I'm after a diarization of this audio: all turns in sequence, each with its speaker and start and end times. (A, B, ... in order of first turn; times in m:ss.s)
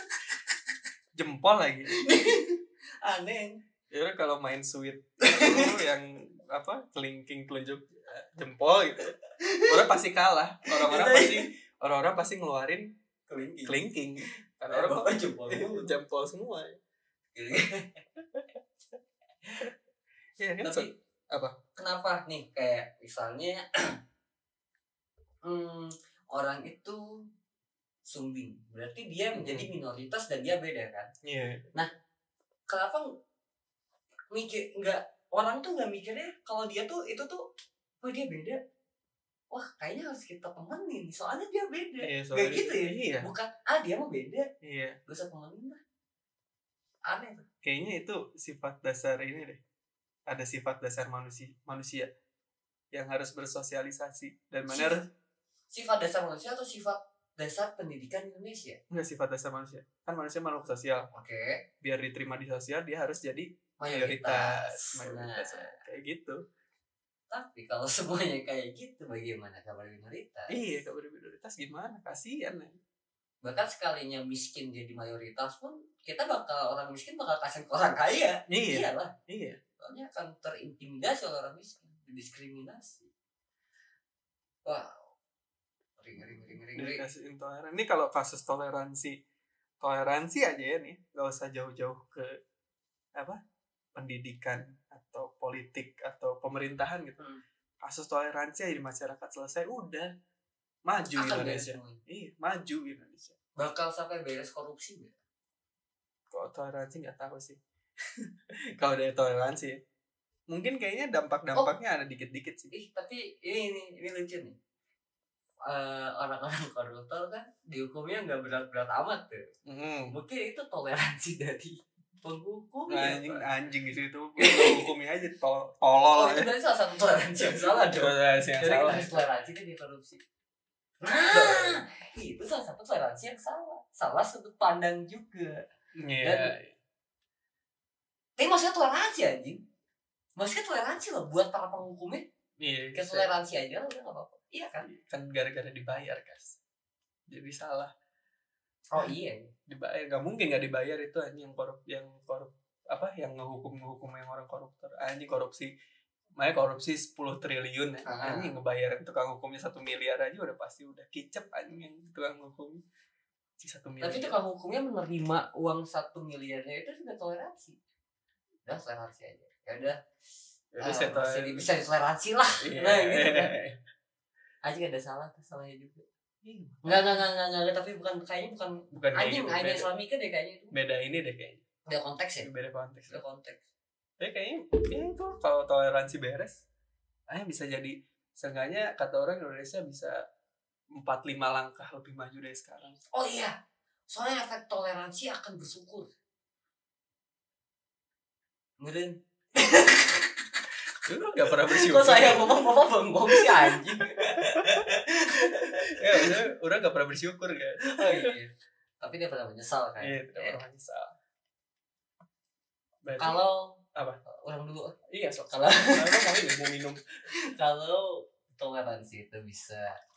0:01.2-0:02.0 A
0:01.9-0:03.6 B
0:03.9-0:09.2 A
0:05.2-0:05.8 B
0:09.4-0:09.9 B
0:09.7-0:12.9 A
0:10.7-0:11.5 B
0:13.3-0:13.8 B
0:13.6-0:16.8 A
0:14.7-0:15.9 B
0:17.4-0:18.0 B
0:20.4-0:21.5 A
0:20.6-0:20.9 B
0:21.8-0:23.6 B
0:25.4-0:27.0 B
0:28.1-0:31.1 B
0:29.3-0:29.7 A
0:31.2-0:31.7 A
0:32.7-0:33.1 B
0:34.3-0:37.4 B
0:38.0-0:38.6 B
0:39.5-0:44.5 B
0:42.0-0:43.3 A
0:44.6-0:45.0 A
0:45.1-0:45.8 B
0:47.1-0:47.4 B
0:47.6-0:49.6 A
0:50.3-0:52.1 A
0:52.9-0:55.0 A
0:54.7-0:55.1 B
0:55.7-0:58.8 B
0:58.9-1:01.1 A
1:01.1-1:01.6 B
1:01.8-1:06.4 A
1:03.8-1:05.8 B
1:07.3-1:10.6 B
1:10.5-1:12.8 A
1:13.4-1:19.1 B
1:18.5-1:19.6 A
1:19.8-1:23.1 B
1:24.6-1:25.0 B
1:26.0-1:27.0 B
1:26.7-1:29.2 A
1:29.8-1:32.4 A
1:33.9-1:37.2 A
1:37.8-1:40.1 A
1:40.9-1:43.4 A
1:41.1-1:42.0 B
1:43.6-1:45.2 B
1:46.3-1:47.6 A
1:48.2-1:49.8 A
1:50.5-1:52.7 A
1:52.7-1:54.6 B
1:55.6-1:59.5 B
1:59.6-2:00.1 A
2:00.1-2:03.5 B
2:02.9-2:06.5 A
2:04.4-2:04.9 B
2:06.1-2:10.2 B
2:07.4-2:09.2 A
2:11.0-2:15.6 B
2:11.3-2:11.8 A
2:15.9-2:16.8 A
2:16.2-2:16.5 B
2:18.4-2:19.6 B
2:20.4-2:22.2 B
2:22.6-2:23.3 A
2:22.9-2:24.9 B
2:24.8-2:26.6 A
2:27.3-2:27.9 A
2:28.9-2:29.5 B
2:29.7-2:35.7 A
2:36.4-2:42.8 A
2:38.0-2:38.5 B
2:43.6-2:44.4 A
2:44.0-2:47.8 B
2:48.6-2:50.0 B
2:50.7-2:51.7 A
2:50.8-2:53.5 B
2:52.6-2:53.8 A
2:54.6-2:56.0 B
2:56.4-2:57.2 A
2:56.8-3:00.7 B
2:58.9-2:59.9 A
3:00.7-3:01.6 A
3:01.9-3:02.5 B
3:02.4-3:03.2 A
3:03.1-3:03.6 B
3:04.2-3:06.6 A
3:07.3-3:10.2 A
3:10.9-3:13.0 A
3:13.1-3:13.5 B
3:14.1-3:16.1 B
3:18.8-3:20.3 B
3:21.0-3:22.6 A
3:21.5-3:26.4 B
3:23.3-3:28.3 A
3:27.8-3:30.6 B
3:30.0-3:31.1 A
3:33.0-3:33.4 A
3:33.2-3:34.9 B
3:33.9-3:34.2 A
3:35.1-3:37.0 A
3:35.5-3:36.4 B
3:37.5-3:39.9 B